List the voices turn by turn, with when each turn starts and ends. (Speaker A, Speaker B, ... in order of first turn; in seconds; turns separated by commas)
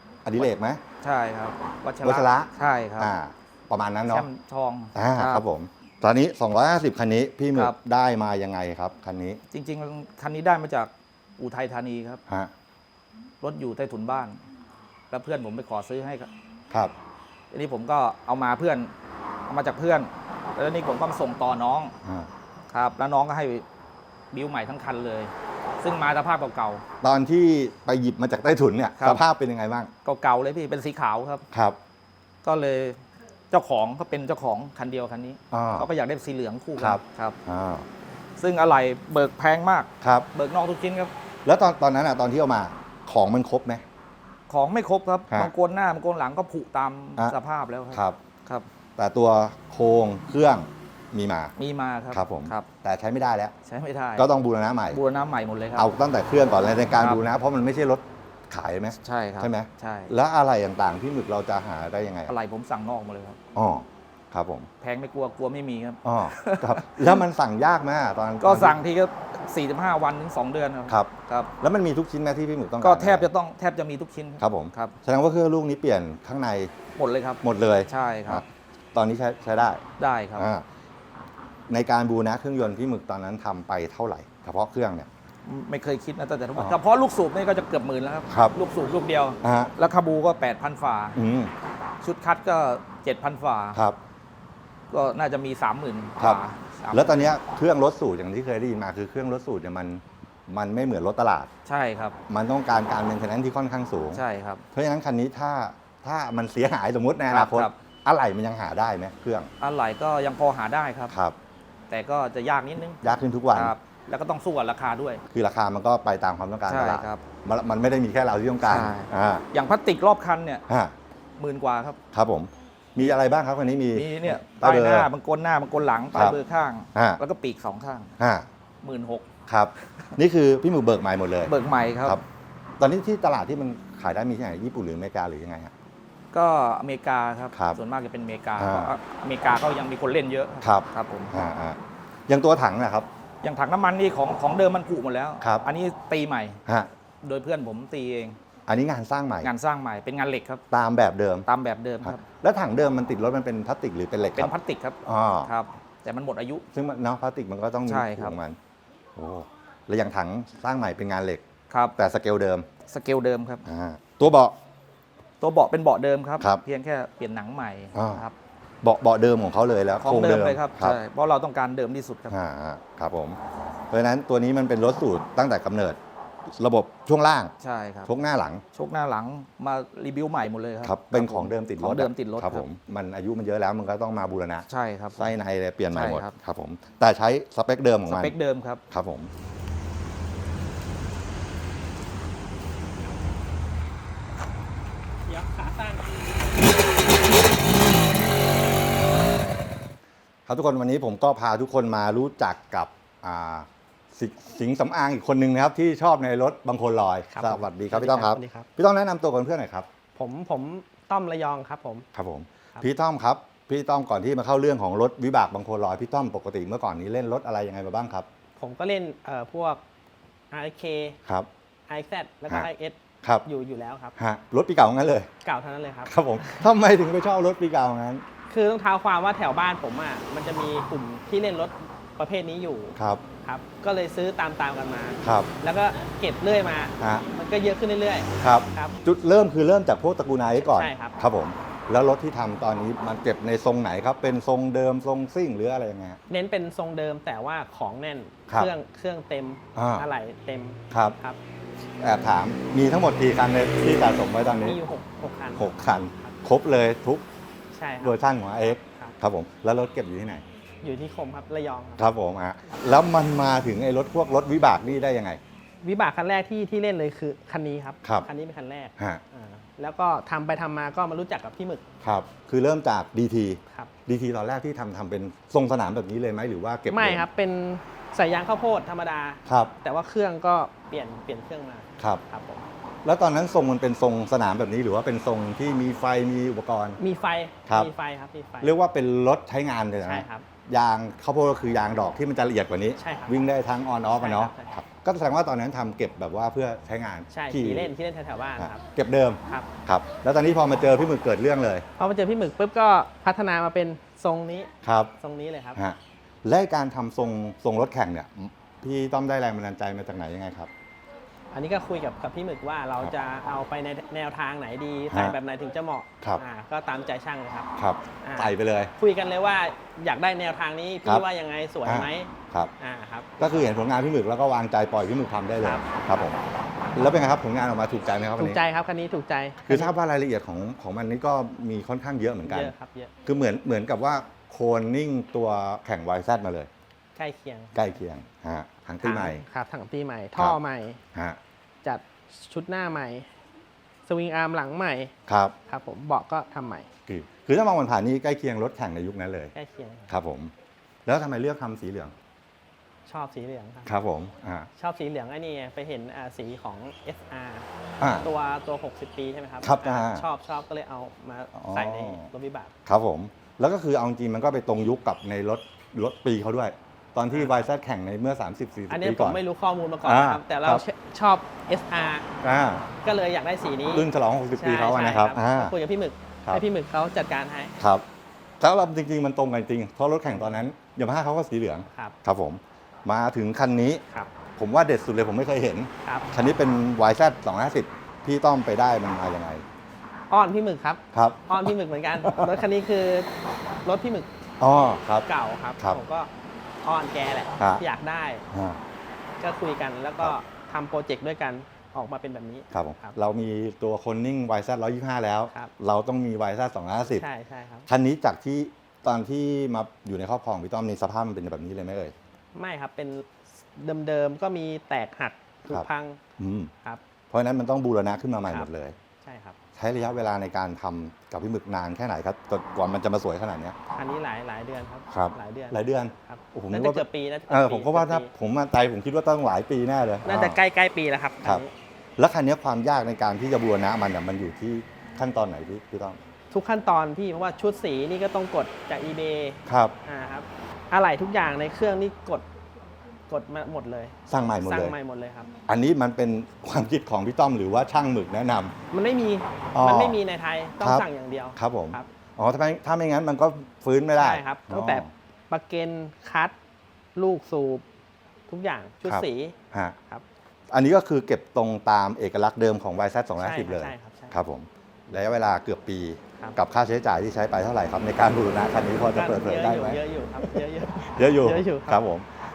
Speaker A: 0.2-0.8, Speaker B: 1.0-3.1, Speaker A: 2.0-4.3, Speaker B: 4.0-5.4, Speaker A: 4.9-9.4, Speaker B: 9.5-12.2, Speaker B: 13.4-14.4, Speaker B: 15.1-16.3, Speaker B: 17.5-18.9, Speaker B: 19.5-21.9, Speaker B: 22.7-23.6, Speaker B: 24.3-26.8, Speaker A: 27.0-29.9, Speaker B: 29.0-29.2, Speaker B: 30.0-31.4, Speaker A: 31.5-31.8, Speaker B: 32.4-33.0, Speaker B: 33.5-37.4, Speaker A: 35.5-35.9, Speaker A: 36.8-37.9, Speaker B: 38.4-41.1, Speaker A: 40.0-40.3, Speaker A: 41.4-43.8, Speaker B: 44.5-48.6, Speaker A: 47.9-48.2, Speaker A: 49.0-51.5, Speaker B: 51.6-52.7, Speaker A: 52.1-53.5, Speaker B: 53.6-54.3, Speaker A: 54.1-55.0, Speaker B: 54.9-55.9, Speaker A: 55.8-62.3, Speaker B: 57.0-57.2, Speaker B: 59.0-60.1, Speaker B: 62.3-63.4, Speaker A: 63.5-64.7, Speaker B: 64.8-67.2, Speaker A: 66.0-68.8, Speaker B: 68.4-71.5, Speaker A: 70.9-73.3, Speaker B: 72.8-75.0, Speaker A: 74.4-76.7, Speaker B: 77.0-78.4, Speaker A: 77.4-79.8, Speaker B: 80.0-80.5, Speaker A: 80.3-80.6, Speaker A: 81.7-85.1, Speaker B: 85.4-91.2, Speaker A: 88.3-88.5, Speaker A: 89.4-89.7, Speaker A: 91.1-91.5, Speaker B: 92.0-93.8, Speaker B: 94.9-97.3, Speaker A: 96.9-101.5, Speaker B: 101.7-102.2, Speaker A: 102.3-109.5, Speaker B: 104.1-104.6, Speaker B: 107.3-107.7, Speaker B: 109.6-111.1, Speaker A: 111.1-111.3, Speaker B: 111.9-113.0, Speaker A: 113.0-113.7, Speaker B: 113.5-115.2, Speaker A: 115.3-119.5, Speaker B: 116.7-117.2, Speaker B: 118.6-120.6, Speaker A: 120.7-120.9, Speaker B: 121.4-122.0, Speaker A: 122.1-125.1, Speaker B: 123.9-128.1, Speaker A: 126.1-126.4, Speaker A: 126.9-127.2, Speaker A: 128.2-128.5, Speaker B: 128.8-129.3, Speaker A: 129.5-131.5, Speaker B: 131.4-132.2, Speaker A: 132.8-135.7, Speaker B: 136.3-141.3, Speaker A: 137.5-137.8, Speaker A: 138.6-138.9, Speaker A: 140.6-143.1, Speaker B: 143.4-146.6, Speaker B: 147.2-148.4, Speaker A: 148.7-149.5, Speaker B: 149.4-150.6, Speaker A: 150.7-151.5, Speaker B: 151.4-152.2, Speaker A: 152.0-154.5, Speaker B: 154.3-156.7, Speaker A: 155.0-155.5, Speaker A: 156.7-158.6, Speaker B: 157.9-158.4, Speaker A: 159.2-161.4, Speaker B: 161.7-161.9, Speaker A: 161.9-162.7, Speaker B: 162.9-163.6, Speaker A: 163.7-164.6, Speaker B: 165.4-168.3, Speaker A: 167.9-168.2, Speaker A: 168.8-171.0, Speaker B: 170.0-172.3, Speaker A: 172.3-173.4, Speaker A: 173.9-176.0, Speaker A: 176.5-177.5, Speaker B: 177.6-178.1, Speaker A: 178.1-178.6, Speaker B: 178.7-182.7, Speaker A: 180.8-188.3, Speaker B: 184.7-185.3, Speaker B: 185.9-186.3, Speaker B: 188.1-188.8, Speaker A: 188.9-189.3, Speaker C: 195.3-196.8, Speaker A: 200.5-209.9, Speaker C: 207.3-208.7, Speaker C: 210.2-212.1, Speaker A: 212.1-218.2, Speaker C: 218.6-219.8, Speaker C: 220.5-221.2, Speaker C: 221.9-224.1, Speaker A: 224.2-225.3, Speaker C: 225.4-226.7, Speaker A: 226.1-228.2, Speaker C: 228.5-239.0, Speaker A: 232.9-233.2, Speaker A: 235.2-235.5, Speaker A: 237.0-237.2, Speaker A: 238.4-246.2, Speaker C: 240.6-241.2, Speaker C: 246.3-251.4, Speaker A: 249.7-250.1, Speaker A: 250.9-251.2, Speaker A: 252.0-254.8, Speaker C: 254.6-256.4, Speaker A: 255.6-257.2, Speaker C: 257.7-259.2, Speaker A: 258.0-260.4, Speaker C: 260.8-262.0, Speaker A: 262.0-265.4, Speaker C: 265.8-271.8, Speaker A: 272.0-277.3, Speaker C: 276.9-282.7, Speaker A: 279.4-279.7, Speaker A: 283.0-287.0, Speaker C: 287.0-288.7, Speaker A: 287.7-287.9, Speaker A: 288.6-297.9, Speaker C: 290.0-290.4, Speaker C: 293.0-293.4, Speaker C: 294.2-294.7, Speaker C: 297.3-298.8, Speaker A: 298.6-301.9, Speaker C: 302.0-305.8, Speaker A: 304.8-305.1, Speaker A: 305.8-310.7, Speaker C: 311.5-317.7, Speaker A: 315.1-315.4, Speaker A: 317.8-318.9, Speaker C: 318.2-323.7, Speaker A: 321.8-322.7, Speaker A: 323.4-326.4, Speaker C: 325.6-326.4, Speaker A: 326.9-328.6, Speaker C: 328.4-329.9, Speaker A: 329.7-332.7, Speaker C: 332.4-333.1, Speaker A: 333.2-336.7, Speaker C: 337.2-337.7, Speaker A: 337.7-339.4, Speaker C: 339.0-341.0, Speaker A: 341.1-341.4, Speaker C: 341.8-343.3, Speaker C: 344.1-345.1, Speaker A: 345.3-345.6, Speaker C: 345.7-346.9, Speaker A: 347.1-349.5, Speaker C: 349.5-350.1, Speaker A: 350.1-350.5, Speaker A: 351.1-352.1, Speaker C: 353.1-353.9, Speaker A: 353.9-354.7, Speaker C: 354.8-357.7, Speaker A: 358.0-358.3, Speaker C: 358.2-362.7, Speaker A: 359.6-360.2, Speaker A: 361.6-362.3, Speaker A: 362.9-369.4, Speaker C: 367.3-367.6, Speaker C: 368.9-372.3, Speaker A: 370.0-370.8, Speaker A: 372.4-372.9, Speaker C: 373.0-374.1, Speaker A: 373.9-375.7, Speaker C: 374.6-377.7, Speaker A: 377.8-378.1, Speaker A: 378.6-384.0, Speaker C: 381.9-382.2, Speaker A: 384.6-389.6, Speaker C: 386.0-386.3, Speaker C: 390.3-393.3, Speaker A: 391.1-392.6, Speaker C: 393.8-394.3, Speaker A: 394.6-395.3, Speaker C: 395.2-396.3, Speaker C: 396.8-398.4, Speaker A: 398.5-398.8, Speaker C: 399.4-403.2, Speaker A: 402.7-407.2, Speaker C: 407.1-407.9, Speaker A: 407.9-412.1, Speaker C: 412.5-416.2, Speaker A: 416.4-416.7, Speaker A: 417.3-418.9, Speaker C: 419.2-419.6, Speaker A: 419.8-423.8, Speaker C: 423.9-428.3, Speaker A: 425.1-430.6, Speaker C: 430.2-431.7, Speaker A: 432.2-436.2, Speaker C: 436.5-442.5, Speaker A: 439.7-439.9, Speaker C: 443.3-445.5, Speaker A: 444.3-444.9, Speaker A: 445.7-448.7, Speaker C: 448.9-452.1, Speaker A: 449.7-450.2, Speaker A: 450.8-455.1, Speaker C: 454.2-456.6, Speaker C: 457.1-457.8, Speaker C: 458.5-459.6, Speaker A: 459.1-460.0, Speaker A: 460.7-472.3, Speaker C: 463.4-464.4, Speaker C: 469.1-472.0